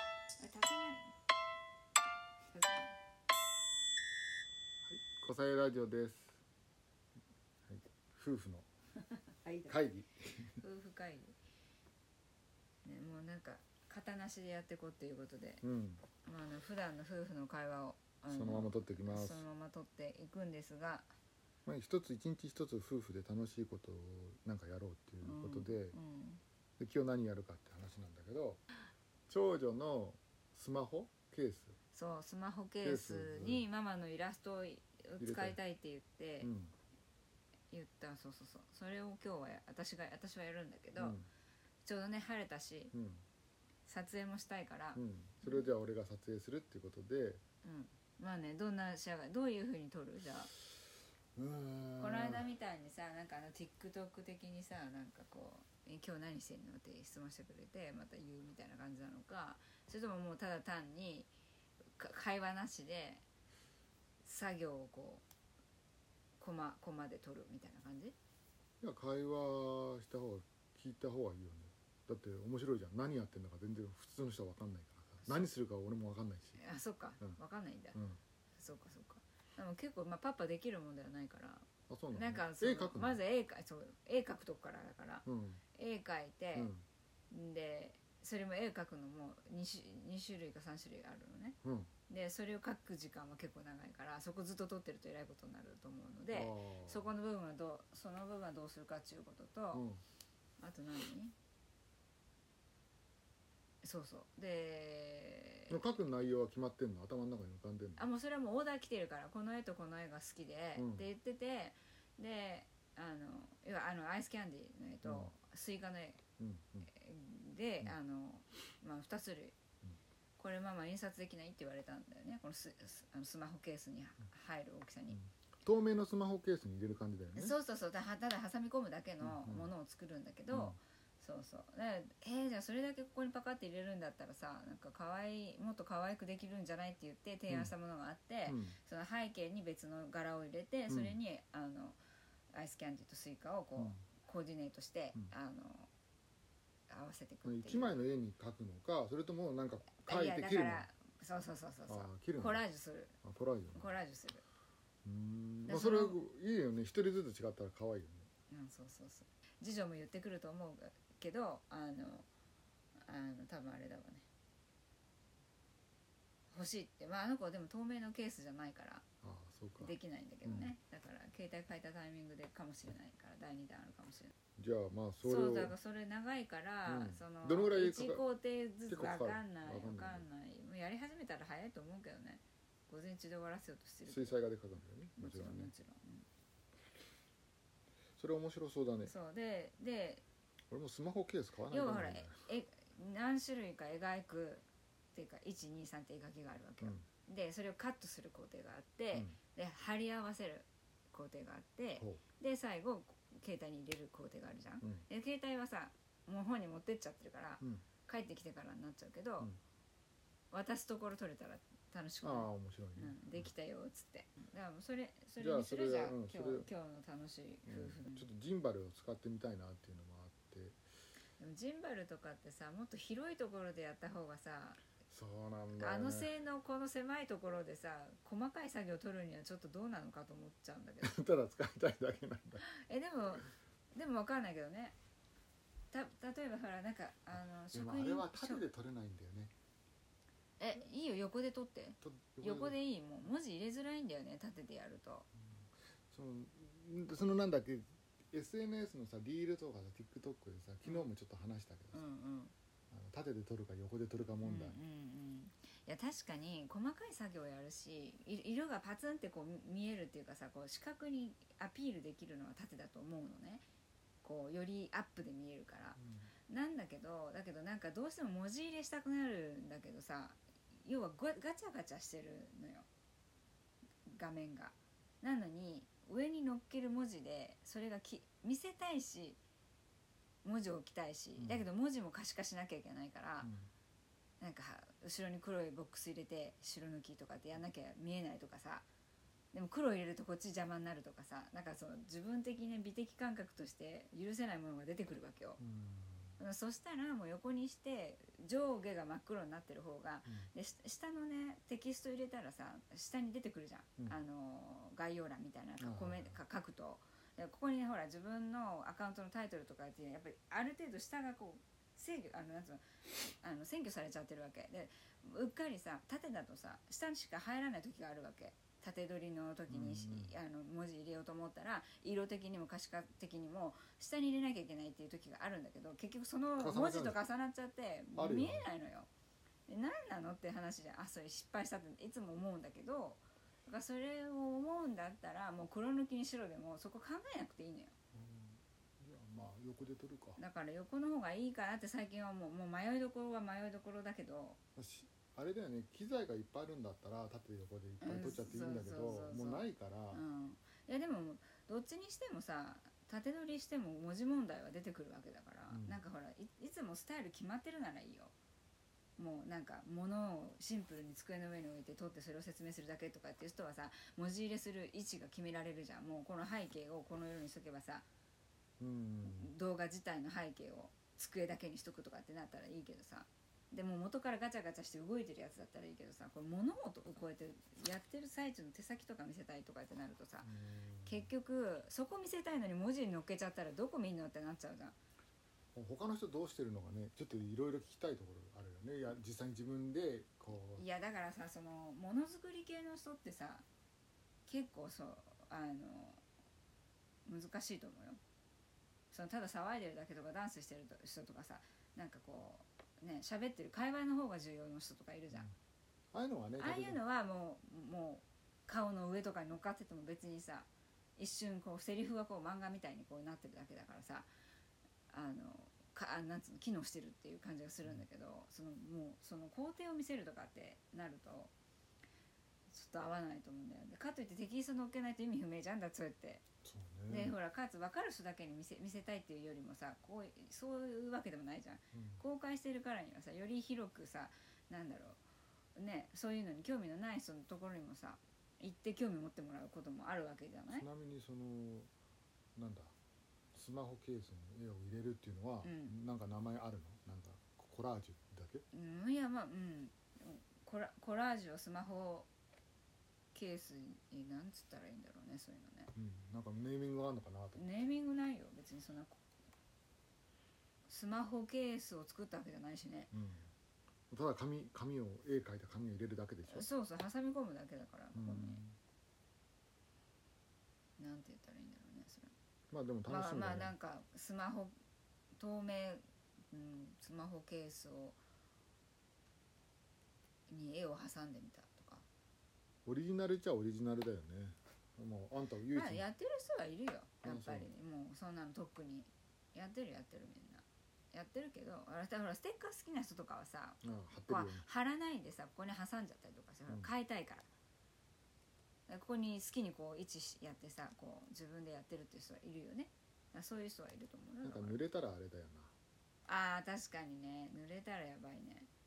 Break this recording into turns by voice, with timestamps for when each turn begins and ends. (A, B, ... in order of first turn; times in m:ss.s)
0:00.4-0:01.1 A
0:02.5-0:03.0 A
0:04.8-0:06.4 B
0:07.7-0:08.7 B
0:09.4-0:09.8 A
0:09.7-0:10.6 B
0:10.6-0:11.4 A
0:12.8-0:15.6 A
0:15.6-0:16.0 B
0:16.2-0:21.1 A
0:18.3-0:19.4 B
0:21.6-0:26.0 B
0:25.2-0:26.4 A
0:26.8-0:28.6 B
0:29.3-0:31.8 B
0:31.9-0:36.5 A
0:32.8-0:33.6 B
0:35.2-0:35.6 B
0:36.4-0:36.7 B
0:37.7-0:41.2 A
0:41.0-0:41.3 B
0:41.8-0:42.9 A
0:42.9-0:43.2 B
0:43.8-0:45.6 A
0:45.0-0:47.4 B
0:47.6-0:50.5 A
0:51.4-0:52.5 B
0:52.0-1:01.3 A
1:02.0-1:03.2 A
1:04.2-1:05.2 A
1:06.4-1:08.1 A
1:08.8-1:16.6 B
1:15.2-1:15.5 A
1:16.6-1:18.0 A
1:17.9-1:18.2 B
1:18.6-1:26.7 A
1:21.9-1:23.2 B
1:25.2-1:25.6 B
1:26.5-1:26.8 B
1:27.3-1:31.6 A
1:31.6-1:31.9 B
1:32.1-1:39.8 A
1:36.3-1:37.1 B
1:39.7-1:40.0 B
1:40.6-1:41.3 A
1:43.8-1:45.8 A
1:45.7-1:48.0 B
1:48.0-1:56.2 A
1:50.8-1:51.1 B
1:55.0-1:55.3 B
1:56.4-1:56.9 B
1:56.8-1:59.6 A
2:00.4-2:05.2 A
2:05.2-2:07.6 B
2:07.3-2:22.0 A
2:09.2-2:09.7 B
2:10.5-2:10.8 B
2:18.4-2:18.8 B
2:20.9-2:21.2 B
2:22.5-2:25.9 A
2:26.9-2:28.0 A
2:27.4-2:30.9 B
2:29.9-2:33.1 A
2:31.9-2:32.6 B
2:33.2-2:34.0 B
2:33.7-2:34.4 A
2:35.0-2:38.3 B
2:35.7-2:36.2 A
2:38.5-2:42.3 A
2:43.0-2:44.2 A
2:46.5-2:49.0 A
2:49.2-2:50.7 B
2:49.8-2:54.3 A
2:54.6-2:55.7 B
2:55.2-3:04.4 A
2:56.8-2:58.2 B
2:58.9-3:00.2 B
3:04.0-3:05.7 B
3:05.2-3:06.2 A
3:08.2-3:09.1 B
3:09.0-3:10.2 A
3:10.7-3:12.4 B
3:11.7-3:29.5 A
3:22.0-3:22.2 B
3:30.5-3:38.3 A
3:32.2-3:33.5 B
3:35.4-3:36.7 B
3:37.7-3:40.8 B
3:41.4-3:44.8 A
3:45.1-3:46.3 B
3:45.7-3:51.1 A
3:51.0-3:52.6 B
3:52.6-3:55.0 A
3:55.9-3:58.7 A
3:57.3-3:59.5 B
4:00.6-4:05.3 A
4:02.0-4:02.8 B
4:05.5-4:12.0 B
4:11.9-4:12.5 A
4:12.9-4:14.8 B
4:14.4-4:23.6 A
4:24.2-4:32.9 A
4:26.0-4:26.3 B
4:34.0-4:39.4 A
4:40.4-4:43.5 A
4:41.4-4:41.6 B
4:43.4-4:43.7 B
4:44.4-4:48.9 A
4:49.5-4:55.6 A
4:55.6-4:56.4 B
4:56.4-5:29.1 A
5:05.8-5:06.4 B
5:19.7-5:20.4 B
5:26.6-5:27.2 B
5:28.1-5:28.7 B
5:29.7-5:37.9 A
5:38.1-5:40.4 B
5:40.4-5:44.6 A
5:44.8-5:50.2 B
5:48.0-5:58.3 A
5:55.7-5:56.0 B
5:59.2-6:08.0 A
6:08.8-6:09.5 B
6:09.2-6:20.5 A
6:20.4-6:21.3 B
6:21.0-6:25.0 A
6:25.7-6:30.8 B
6:30.7-6:33.6 A
6:34.5-6:36.2 A
6:37.2-6:38.2 A
6:39.1-6:45.5 A
6:46.1-6:47.0 B
6:46.6-6:54.3 A
6:55.1-7:01.5 A
7:02.7-7:06.4 A
7:06.6-7:07.3 B
7:07.1-7:15.2 A
7:11.9-7:12.2 B
7:15.7-7:20.8 A
7:20.7-7:21.9 B
7:22.6-7:22.9 B
7:23.5-7:28.6 B
7:25.6-7:25.9 A
7:28.7-7:32.3 A
7:33.3-7:35.9 A
7:35.9-7:37.6 B
7:37.5-7:39.2 A
7:40.9-7:43.1 A
7:43.1-7:43.5 B
7:44.1-7:46.7 B
7:46.5-7:48.6 A
7:48.1-7:48.8 B
7:51.0-7:52.3 A
7:52.7-7:53.7 B
7:53.0-7:54.7 A
7:55.4-7:58.2 A
8:00.5-8:02.0 A
8:02.8-8:06.1 B
8:05.7-8:17.5 A
8:07.2-8:07.7 B
8:13.8-8:14.6 B
8:18.9-8:24.8 A
8:24.4-8:25.7 B
8:26.3-8:28.7 A